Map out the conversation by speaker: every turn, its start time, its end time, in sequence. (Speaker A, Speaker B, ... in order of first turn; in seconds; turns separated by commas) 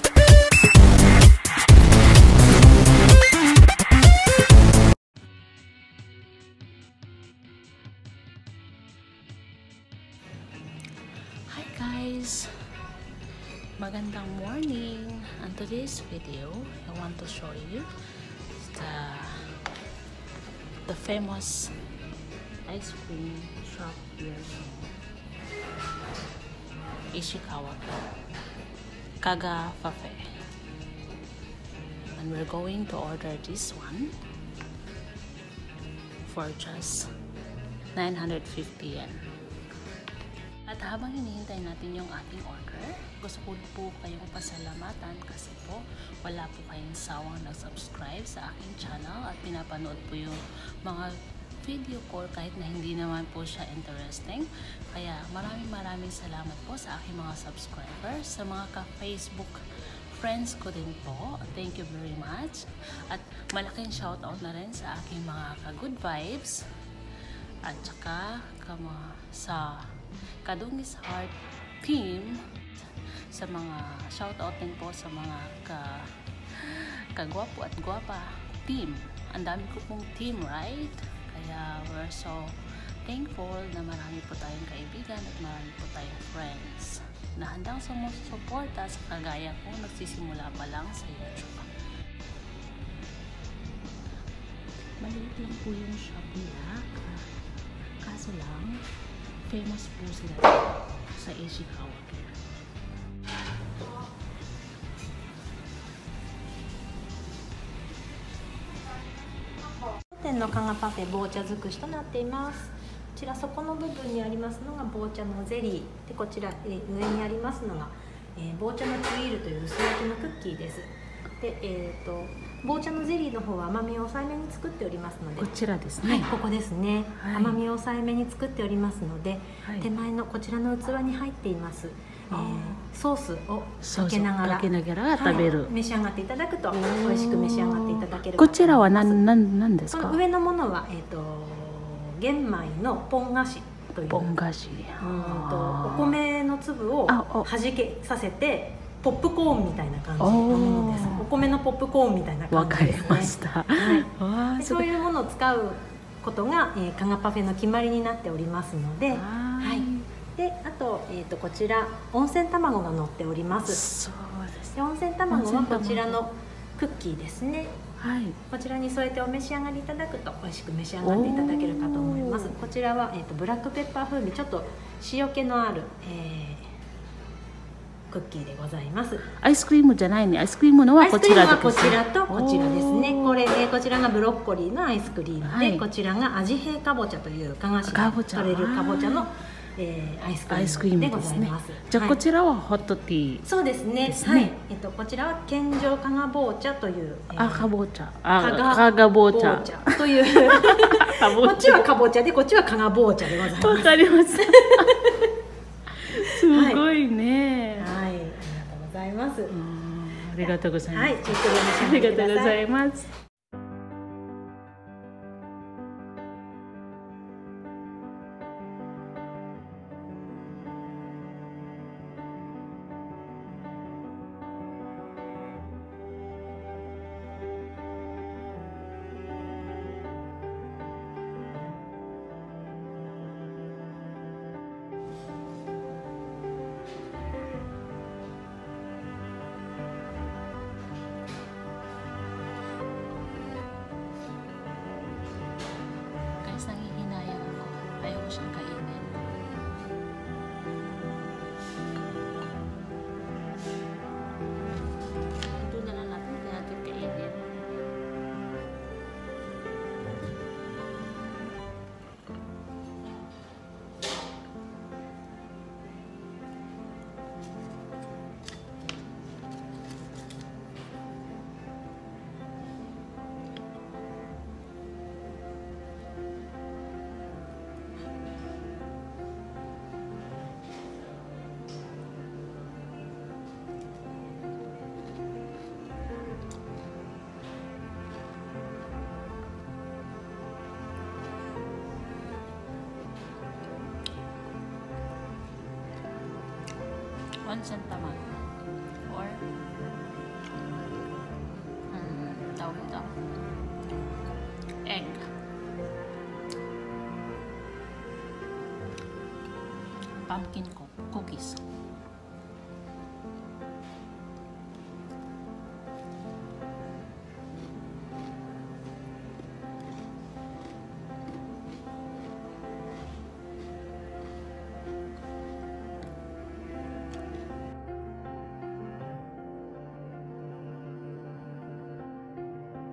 Speaker A: 11.5-12.9, Speaker A: 13.8-17.9, Speaker A: 18.5-19.5, Speaker A: 20.9-21.8, Speaker A: 22.6-25.0, Speaker A: 27.1-28.1, Speaker A: 29.2-30.2, Speaker A: 32.2-34.1, Speaker A: 36.2-37.1, Speaker A: 37.9-39.2, Speaker A: 40.7-66.6, Speaker A: 67.6-91.7, Speaker A: 95.0-97.3, Speaker A: 98.0-98.8, Speaker A: 99.5-102.4, Speaker B: 110.0-125.5, Speaker A: 125.4-126.3, Speaker B: 126.0-139.2, Speaker A: 127.2-127.6, Speaker A: 129.6-129.9, Speaker A: 132.3-132.8, Speaker A: 133.8-135.7, Speaker A: 136.7-140.2, Speaker B: 139.9-144.3, Speaker A: 144.1-146.2, Speaker B: 145.0-163.8, Speaker A: 147.1-147.5, Speaker A: 150.2-151.3, Speaker A: 152.5-154.9, Speaker A: 159.1-160.1, Speaker A: 163.7-164.8, Speaker B: 164.8-167.8, Speaker A: 165.3-166.2, Speaker A: 168.0-168.4, Speaker B: 168.5-176.7, Speaker A: 171.0-172.5, Speaker B: 178.1-179.3, Speaker A: 179.3-183.4, Speaker B: 181.0-192.2, Speaker A: 185.4-185.8, Speaker A: 187.8-189.3, Speaker A: 190.5-193.4, Speaker B: 193.4-197.7, Speaker A: 194.0-194.5, Speaker A: 197.4-201.9, Speaker B: 198.4-205.3, Speaker A: 203.3-205.1, Speaker A: 205.9-207.9, Speaker B: 206.1-206.8, Speaker B: 207.8-209.5, Speaker A: 209.5-213.1, Speaker B: 210.4-212.6, Speaker A: 246.4-249.3, Speaker A: 255.4-257.9, Speaker A: 297.4-298.4, Speaker A: 299.1-299.4, Speaker A: 301.9-303.2, Speaker A: 304.8-305.3, Speaker A: 310.3-311.6